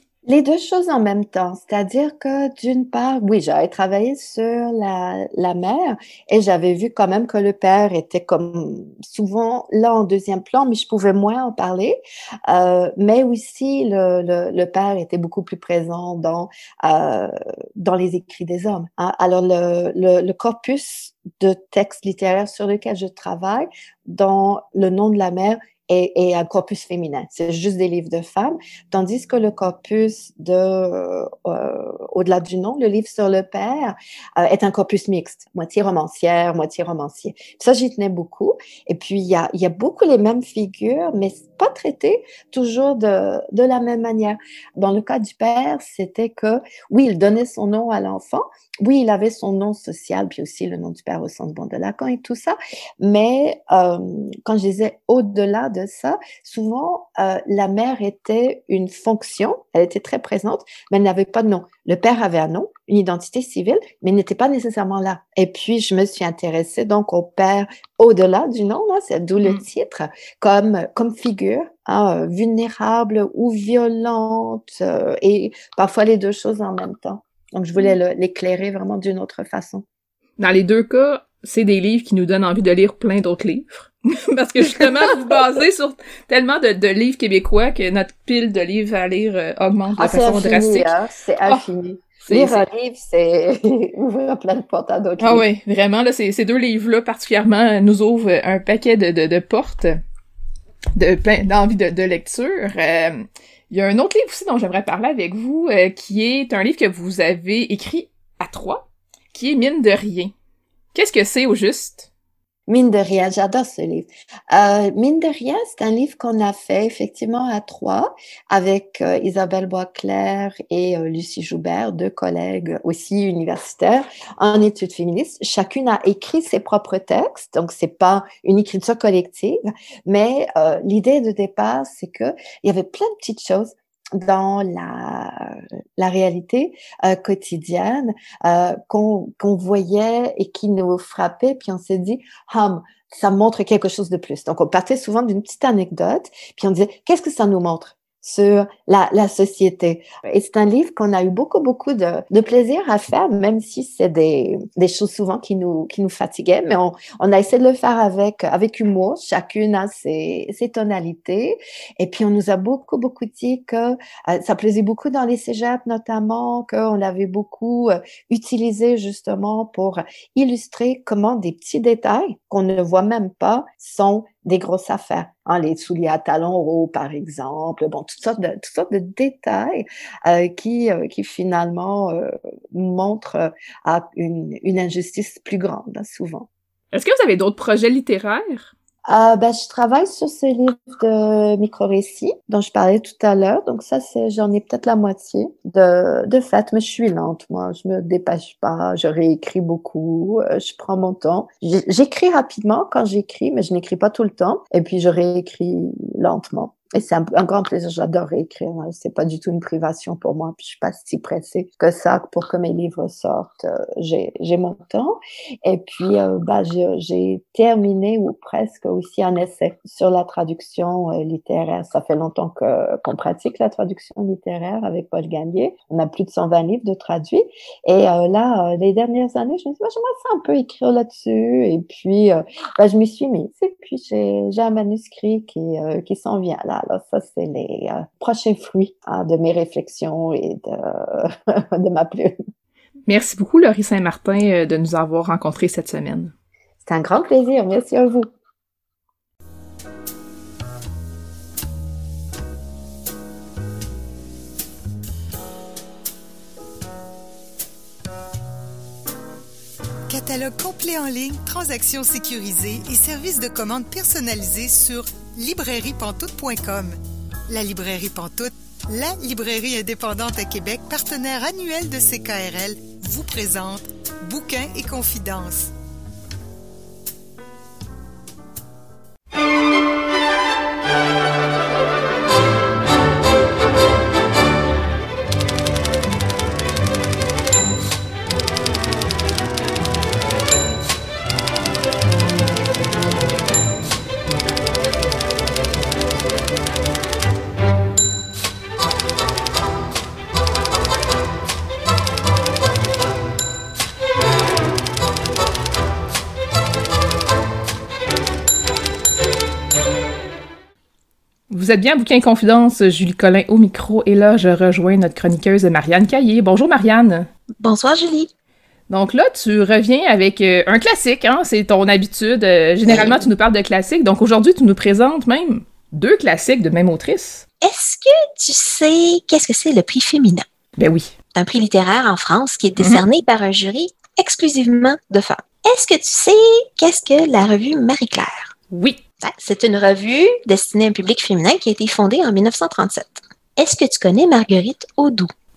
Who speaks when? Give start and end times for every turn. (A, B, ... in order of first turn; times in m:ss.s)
0:00.3-1:19.8 A
1:20.4-1:30.9 B
1:24.6-1:25.4 A
1:30.0-1:35.5 A
1:31.5-1:32.6 B
1:35.2-1:40.0 B
1:41.0-1:50.3 B
1:50.9-1:52.1 B
1:52.7-3:06.5 A
3:06.9-3:08.7 B
3:09.1-4:02.4 A
4:03.1-4:06.3 B
4:06.8-4:08.3 A
4:20.1-4:27.0 C
4:27.5-4:35.7 C
5:11.5-5:17.3 B
5:17.6-5:18.3 D
5:18.9-5:27.4 B
5:22.9-5:23.2 D
5:27.6-5:30.5 D
5:30.8-5:31.1 B
5:31.4-5:38.6 D
5:32.8-5:33.0 B
5:38.7-5:39.0 B
5:39.2-5:45.3 D